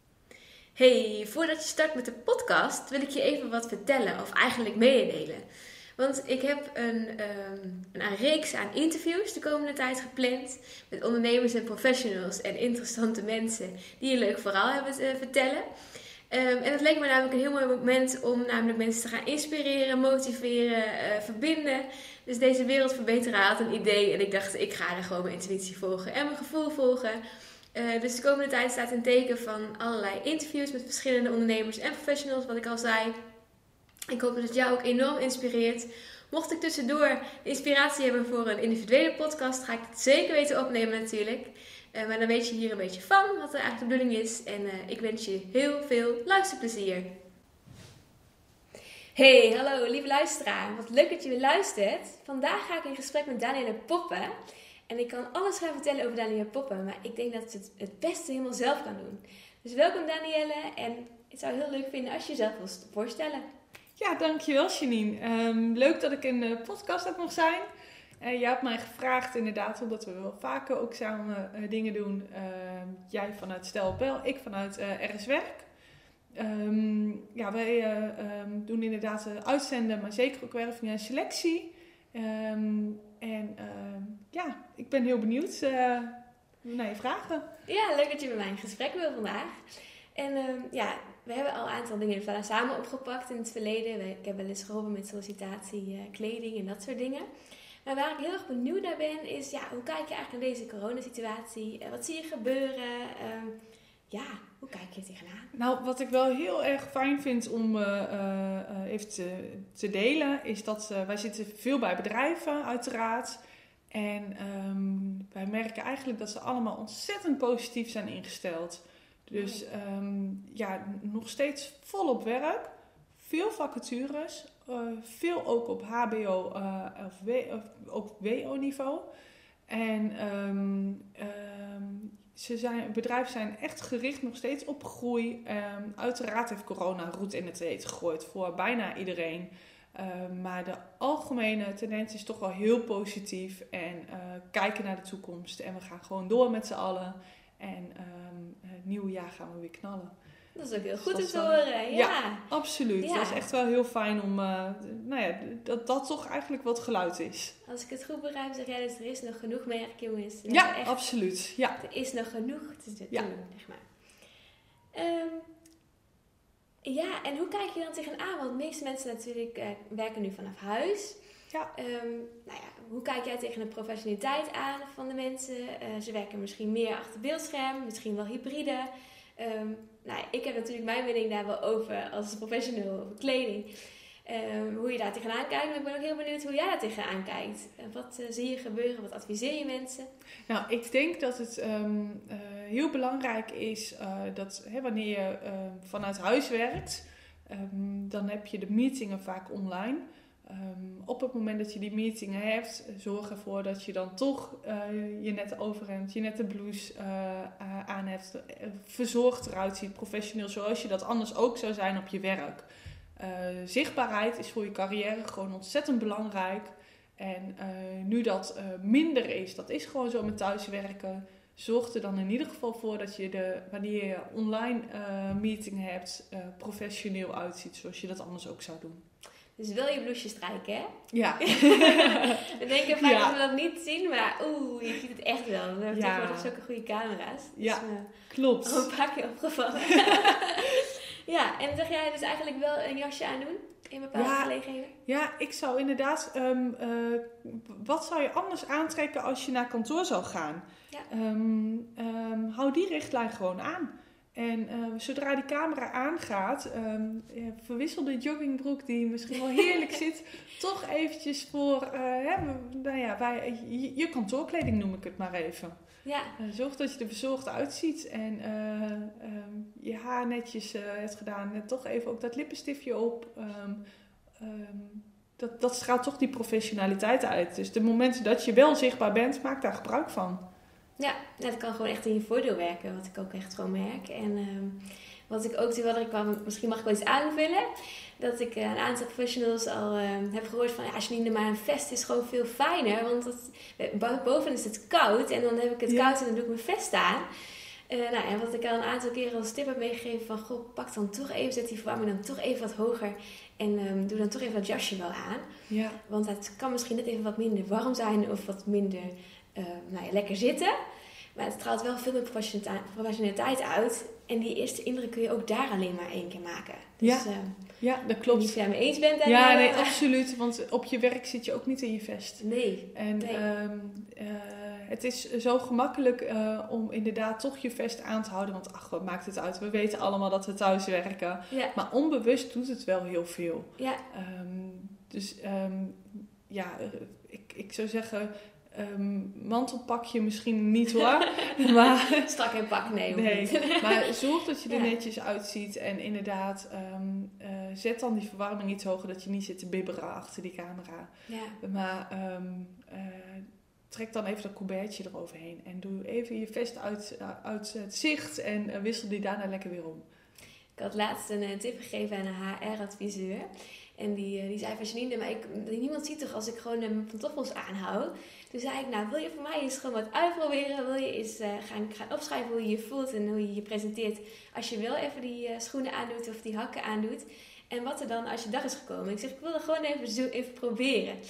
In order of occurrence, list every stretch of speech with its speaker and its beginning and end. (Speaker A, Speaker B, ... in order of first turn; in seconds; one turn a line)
Speaker A: 0.7-5.4
Speaker A: 6.0-15.7
Speaker A: 16.3-27.2
Speaker A: 27.7-33.1
Speaker A: 34.1-47.1
Speaker A: 49.1-54.3
Speaker A: 54.9-63.4
Speaker B: 64.0-67.6
Speaker B: 68.2-75.7
Speaker B: 76.3-87.5
Speaker A: 87.7-97.3
Speaker A: 97.8-103.5
Speaker A: 104.1-105.5
Speaker B: 105.5-113.4
Speaker B: 113.9-129.1
Speaker A: 119.3-119.6
Speaker B: 129.7-150.1
Speaker A: 150.5-152.4
Speaker B: 150.9-157.5
Speaker A: 153.0-153.4
Speaker A: 157.6-160.9
Speaker B: 160.5-161.8
Speaker A: 161.8-163.8
Speaker A: 164.9-165.5
Speaker A: 166.8-171.2
Speaker A: 171.7-183.7
Speaker A: 184.2-190.1
Speaker B: 190.5-229.0
Speaker A: 229.6-244.9
Speaker B: 231.1-233.4
Speaker B: 235.9-236.5
Speaker B: 237.6-238.9
Speaker B: 239.9-240.4
Speaker B: 244.1-244.5
Speaker B: 245.1-265.7
Speaker A: 259.5-259.9
Speaker A: 266.0-266.3
Speaker B: 266.4-273.8
Speaker B: 274.4-280.4
Speaker A: 281.0-287.7
Speaker A: 288.2-297.2
Speaker B: 295.9-296.1
Speaker A: 297.9-305.4
Speaker B: 305.7-306.0
Speaker A: 306.1-310.7
Speaker A: 311.3-317.6
Speaker B: 317.0-317.2
Speaker B: 317.8-318.6
Speaker A: 318.3-320.0
Speaker B: 319.2-322.4
Speaker A: 322.4-323.4
Speaker B: 322.9-342.3
Speaker A: 340.9-344.9
Speaker B: 343.1-360.1
Speaker A: 351.3-351.6
Speaker A: 360.8-381.2